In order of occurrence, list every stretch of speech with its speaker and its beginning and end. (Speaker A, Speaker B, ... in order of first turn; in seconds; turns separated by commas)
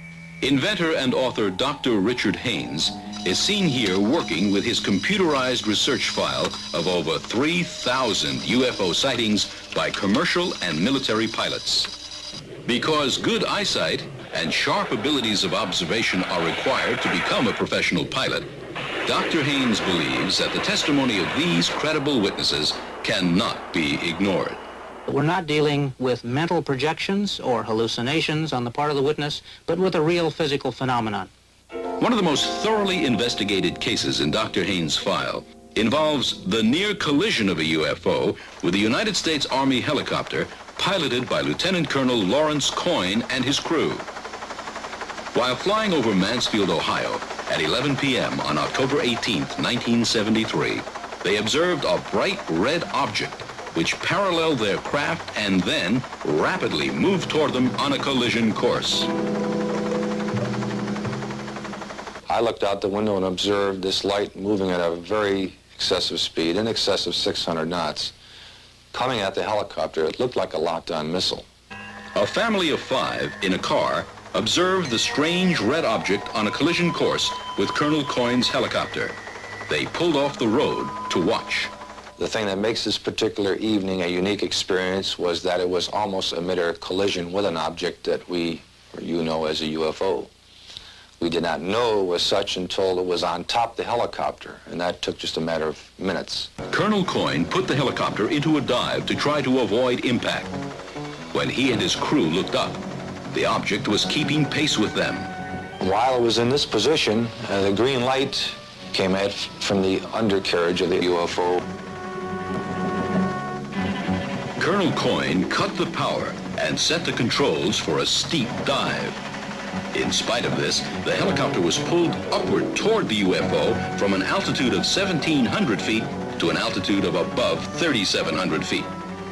Speaker A: 0.4-11.9, Speaker A: 12.7-18.5, Speaker A: 19.1-24.6, Speaker B: 25.1-31.3, Speaker A: 32.0-44.1, Speaker A: 45.3-59.1, Speaker C: 62.3-68.1, Speaker C: 68.9-71.5, Speaker A: 72.2-79.2, Speaker A: 79.7-81.7, Speaker C: 82.2-90.3, Speaker C: 91.2-96.5, Speaker A: 96.7-100.5, Speaker A: 101.3-105.3, Speaker C: 105.8-111.7, Speaker A: 114.6-119.2, Speaker A: 119.9-128.9